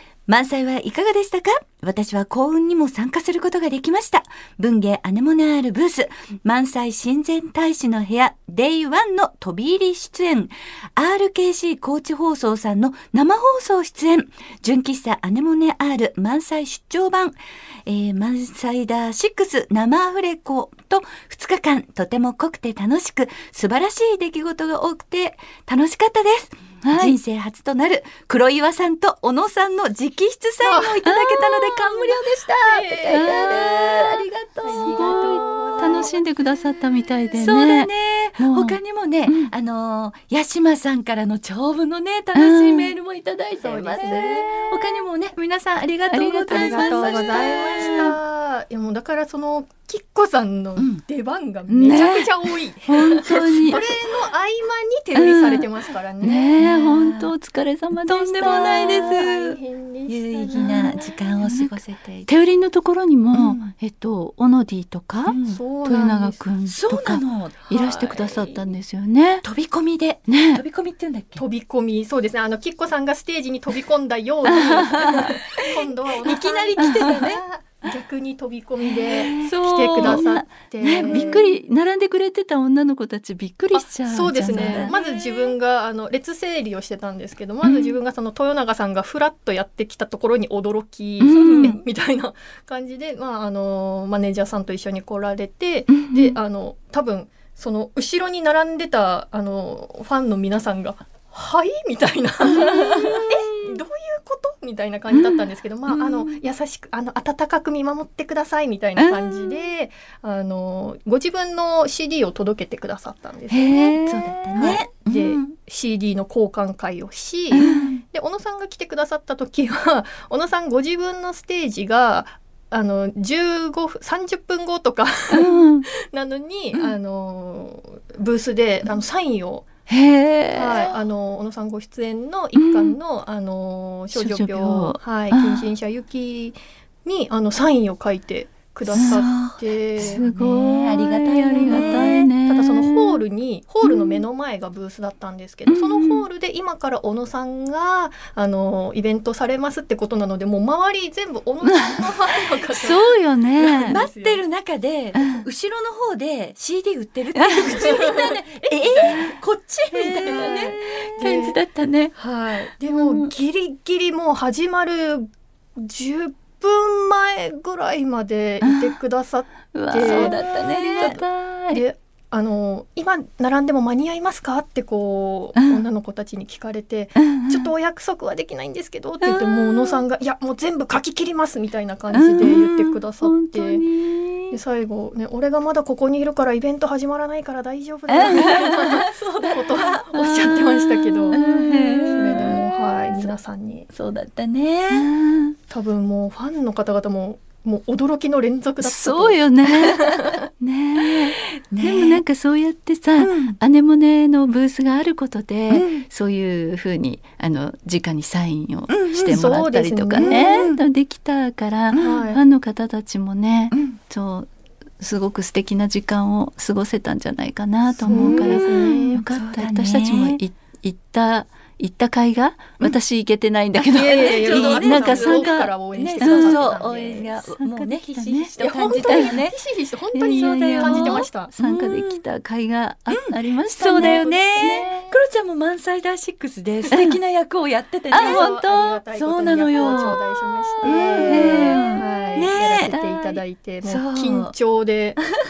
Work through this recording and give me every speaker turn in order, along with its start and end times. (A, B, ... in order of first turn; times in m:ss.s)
0:00.3-0:35.4 A
0:26.8-0:27.2 B
0:30.6-0:31.0 C
0:31.0-0:32.1 B
0:32.5-0:33.6 C
0:33.1-0:34.2 B
0:34.6-0:36.2 C
0:34.8-0:39.5 B
0:37.3-0:48.2 A
0:42.3-0:42.9 B
0:43.6-0:44.7 C
0:44.0-0:44.7 B
0:46.1-0:48.1 B
0:46.5-0:56.5 C
0:51.7-0:52.3 B
0:52.9-0:53.8 B
0:53.3-0:53.9 A
0:55.1-0:55.7 B
0:56.2-0:59.3 B
0:56.6-0:57.3 A
0:57.9-0:59.5 A
0:58.4-1:01.2 C
1:00.1-1:02.3 A
1:00.5-1:09.4 B
1:03.3-1:03.7 A
1:05.3-1:05.6 A
1:05.4-1:06.4 C
1:06.6-1:07.7 A
1:07.7-1:08.6 C
1:09.4-1:11.4 A
1:10.3-1:10.6 B
1:11.4-1:21.5 C
1:14.4-1:15.4 B
1:16.2-1:17.4 A
1:16.8-1:17.3 B
1:19.1-1:25.5 B
1:19.1-1:20.3 A
1:21.0-1:21.4 A
1:23.7-1:54.0 C
1:24.5-1:25.0 A
1:27.6-1:27.9 B
1:31.2-1:31.8 B
1:31.3-1:31.6 A
1:35.9-1:36.4 B
1:42.5-1:43.4 B
1:49.0-1:49.5 B
1:53.5-1:54.8 B
1:53.9-1:55.5 A
1:54.5-2:09.6 C
1:57.5-1:57.9 B
1:57.5-1:58.0 A
2:05.3-2:05.9 B
2:09.9-2:10.9 B
2:10.5-2:20.2 C
2:12.5-2:13.0 B
2:14.1-2:15.7 B
2:18.9-2:22.3 A
2:18.9-2:19.2 B
2:20.0-2:23.2 B
2:21.6-2:34.4 C
2:23.8-2:24.2 B
2:25.7-2:26.2 B
2:31.6-2:32.1 B
2:32.7-2:34.0 B
2:33.8-2:41.4 A
2:35.2-2:35.4 B
2:37.3-2:37.9 B
2:37.7-2:39.3 C
2:39.9-2:42.1 B
2:40.2-2:41.6 C
2:42.1-2:50.4 C
2:42.9-2:43.3 B
2:49.8-2:51.8 B
2:49.9-2:51.2 A
2:50.9-3:03.8 C
2:59.2-2:59.9 B
3:02.1-3:04.6 B
3:04.5-3:11.4 C
3:08.1-3:08.9 B
3:08.1-3:10.5 A
3:10.1-3:12.7 B
3:11.3-3:12.6 A
3:12.1-3:13.9 C
3:13.9-3:15.1 A
3:14.9-3:15.6 B
3:15.7-3:20.4 C
3:18.8-3:34.5 B
3:21.0-3:22.2 A
3:23.2-3:23.6 A
3:25.7-3:26.0 A
3:28.9-3:29.4 A
3:29.2-3:30.6 C
3:30.2-3:30.8 A
3:31.9-3:32.2 A
3:32.0-3:32.4 C
3:33.7-3:34.0 A
3:35.0-3:46.7 B
3:38.0-3:40.4 A
3:38.0-3:39.2 C
3:43.9-3:47.3 C
3:43.9-3:49.6 A
3:47.5-3:49.4 B
3:48.6-3:51.5 C
3:50.1-3:55.0 B
3:50.2-3:52.2 A
3:53.1-3:58.6 A
3:54.0-3:55.1 C
3:56.9-3:57.2 B
3:58.1-4:00.2 B
3:58.1-4:05.2 C
3:59.2-4:00.2 A
4:00.8-4:02.0 B
4:00.8-4:03.0 A
4:02.8-4:03.3 B
4:03.8-4:04.5 A